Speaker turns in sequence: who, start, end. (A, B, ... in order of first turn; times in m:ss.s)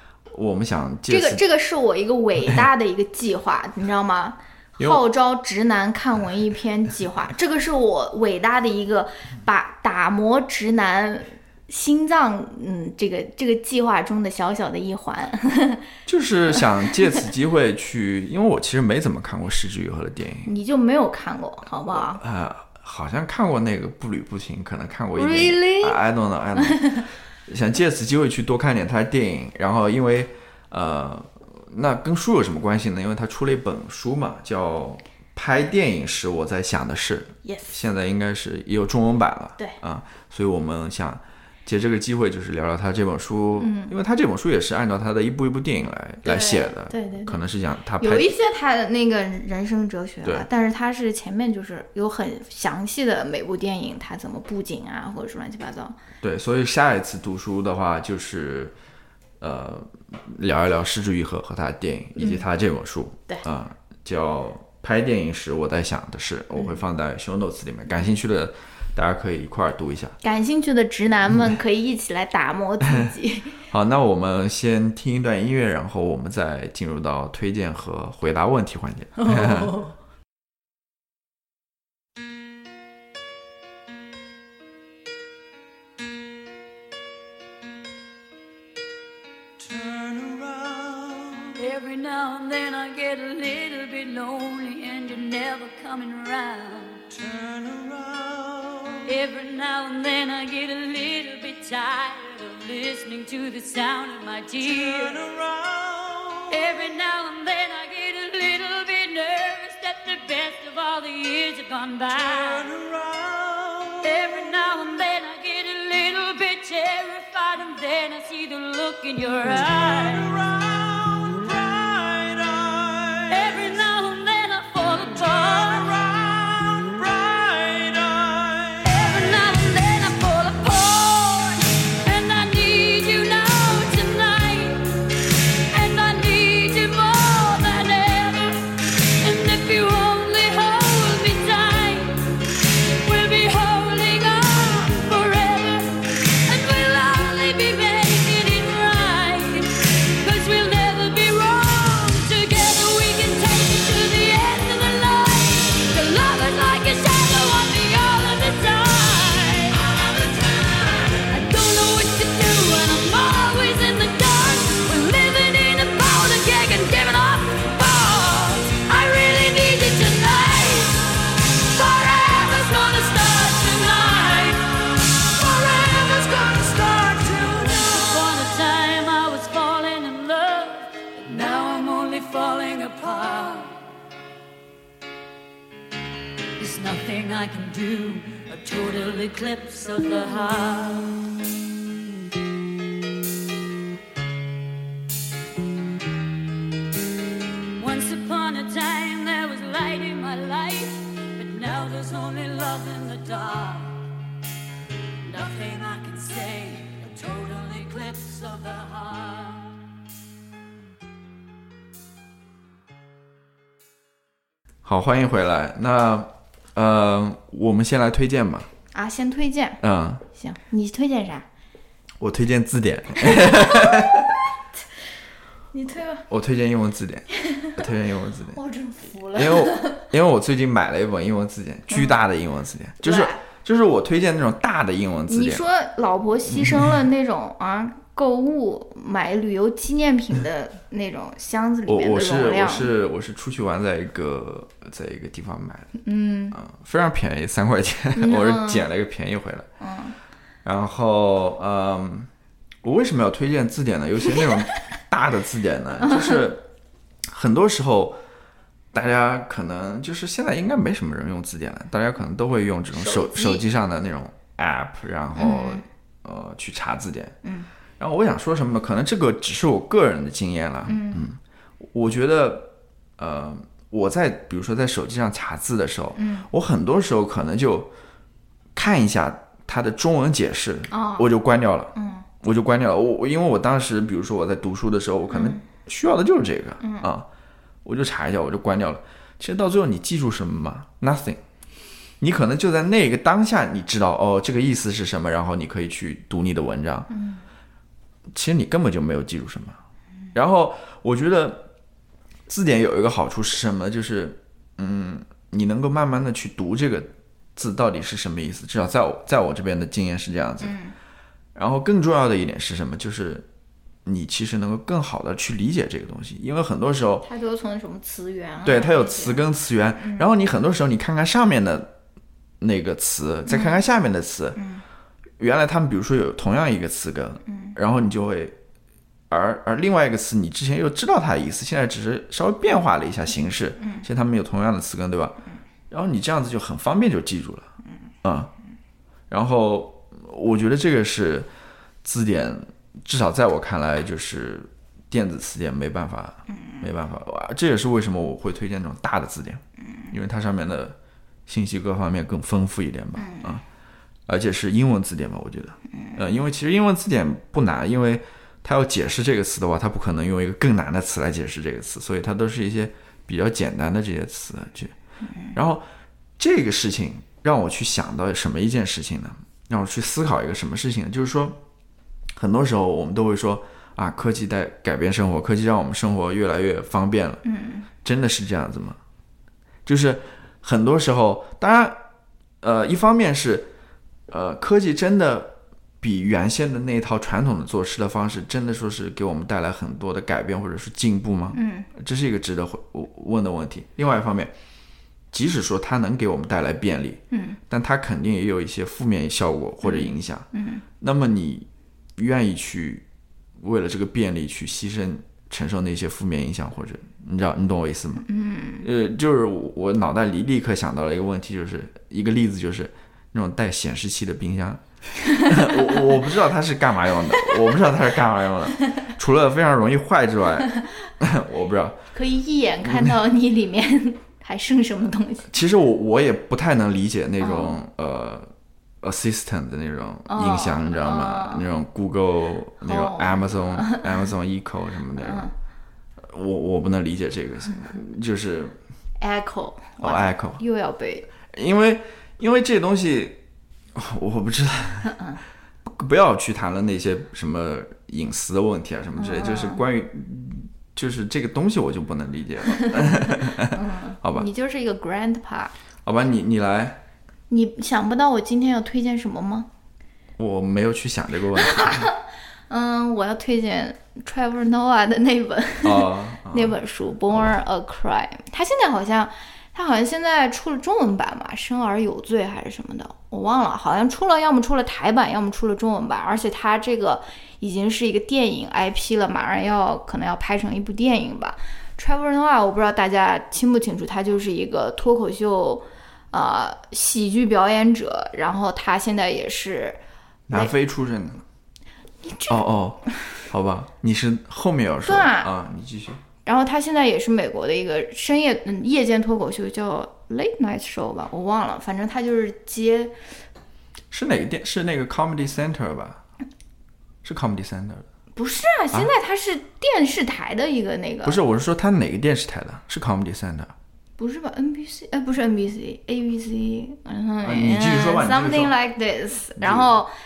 0:00.3-0:01.4 A
0:01.1-0:15.9 B
0:16.1-0:20.5 A
0:20.4-0:22.2 B
0:21.9-0:48.3 A
0:25.2-0:26.0 B
0:26.6-0:27.0 B
0:37.4-0:37.8 B
0:43.6-0:43.9 B
0:46.2-0:47.4 B
0:48.0-0:56.0 B
0:56.2-0:58.7 A
0:59.4-1:10.2 A
1:02.2-1:02.4 B
1:10.2-1:13.6 B
1:12.8-1:13.1 A
1:13.7-1:19.8 A
1:19.2-1:19.9 B
1:31.5-1:37.2 C
1:39.0-1:45.4 C
1:46.4-1:52.8 C
1:53.9-2:01.6 C
2:03.2-2:14.9 C
2:15.7-3:03.8 C
3:06.6-3:11.4 C
3:17.8-3:24.0 C
3:25.2-3:29.7 C
3:34.8-3:38.7 A
3:38.9-3:39.8 B
3:39.8-3:40.2 A
3:40.3-3:41.4 B
3:42.2-3:44.4 A
3:43.2-3:44.1 B
3:45.7-3:46.2 B
3:46.3-3:48.6 A
3:47.5-3:47.7 B
3:48.5-3:50.0 B
3:49.3-3:55.6 A
3:53.0-3:53.4 B
3:55.3-4:02.9 B
3:56.5-3:57.0 A
4:01.9-4:05.9 A
4:06.0-4:06.6 B
4:06.5-4:09.7 A
4:08.2-4:08.9 B
4:09.8-4:10.1 B
4:10.6-4:12.3 A
4:12.8-4:16.6 A
4:16.0-4:16.4 B
4:17.3-4:18.2 A
4:18.9-4:27.4 A
4:22.9-4:23.6 B
4:25.4-4:25.8 B
4:27.4-4:27.7 B
4:28.0-4:31.4 A
4:30.8-4:31.2 B
4:31.9-4:37.9 A
4:36.2-4:36.4 B
4:38.7-4:47.3 A
4:40.9-4:41.3 B
4:41.9-4:42.2 B
4:45.3-4:45.6 B
4:46.8-4:47.1 B
4:47.8-4:51.4 A
4:52.2-4:57.1 A
4:57.1-4:57.4 B
4:58.3-4:59.8 A
5:00.3-5:01.7 A
5:02.5-5:10.8 A
5:10.6-5:10.9 B
5:11.5-5:13.4 A
5:14.0-5:17.2 A
5:17.2-5:19.4 B
5:18.6-5:21.9 A
5:20.0-5:20.2 B
5:22.6-5:24.6 A
5:23.5-5:23.8 B
5:24.6-5:24.8 B
5:25.4-5:28.6 A
5:27.5-5:27.7 B
5:29.3-5:37.7 A
5:33.8-5:34.0 B
5:38.2-5:38.5 A
5:39.3-5:41.5 A
5:42.0-5:51.0 A
5:46.5-5:46.9 B
5:51.5-5:53.6 A
5:53.2-5:53.6 B
5:54.3-6:04.9 A
6:05.5-6:05.8 A
6:06.4-6:11.6 A
6:12.3-6:17.4 A
6:17.4-6:17.9 B
6:18.0-6:19.0 A
6:19.8-6:22.0 A
6:22.6-6:23.7 A
6:24.3-6:34.5 A
6:31.5-6:31.9 B
6:35.3-6:40.5 A
6:37.3-6:37.6 B
6:39.8-6:40.8 B
6:41.0-6:43.0 A
6:43.6-6:48.3 A
6:48.3-6:48.8 B
6:48.8-7:02.0 A
6:55.2-6:56.1 B
7:02.1-7:05.5 B
7:02.8-7:03.1 A
7:05.5-7:08.5 A
7:07.4-7:07.8 B
7:09.0-7:15.5 A
7:10.3-7:11.6 B
7:12.8-7:14.1 B
7:15.2-7:15.5 B
7:16.2-7:18.8 A
7:19.2-7:21.3 B
7:20.0-7:20.6 A
7:21.5-7:23.4 A
7:23.9-7:25.2 A
7:25.0-7:25.4 B
7:25.8-7:34.5 A
7:29.2-7:29.8 B
7:32.7-7:35.7 B
7:36.0-7:37.0 A
7:37.5-7:39.7 B
7:40.4-7:42.1 A
7:41.6-7:42.2 B
7:42.7-8:10.0 B
7:45.8-7:46.8 A
8:10.5-8:11.4 A
8:12.2-8:12.6 B
8:12.5-8:16.2 A
8:15.0-8:15.5 B
8:16.4-8:23.1 B
8:24.1-8:26.2 A
8:27.2-8:28.0 A
8:28.4-8:31.4 B
8:31.2-8:33.7 A
8:34.2-8:40.1 B
8:37.4-8:38.7 A
8:39.6-8:39.9 A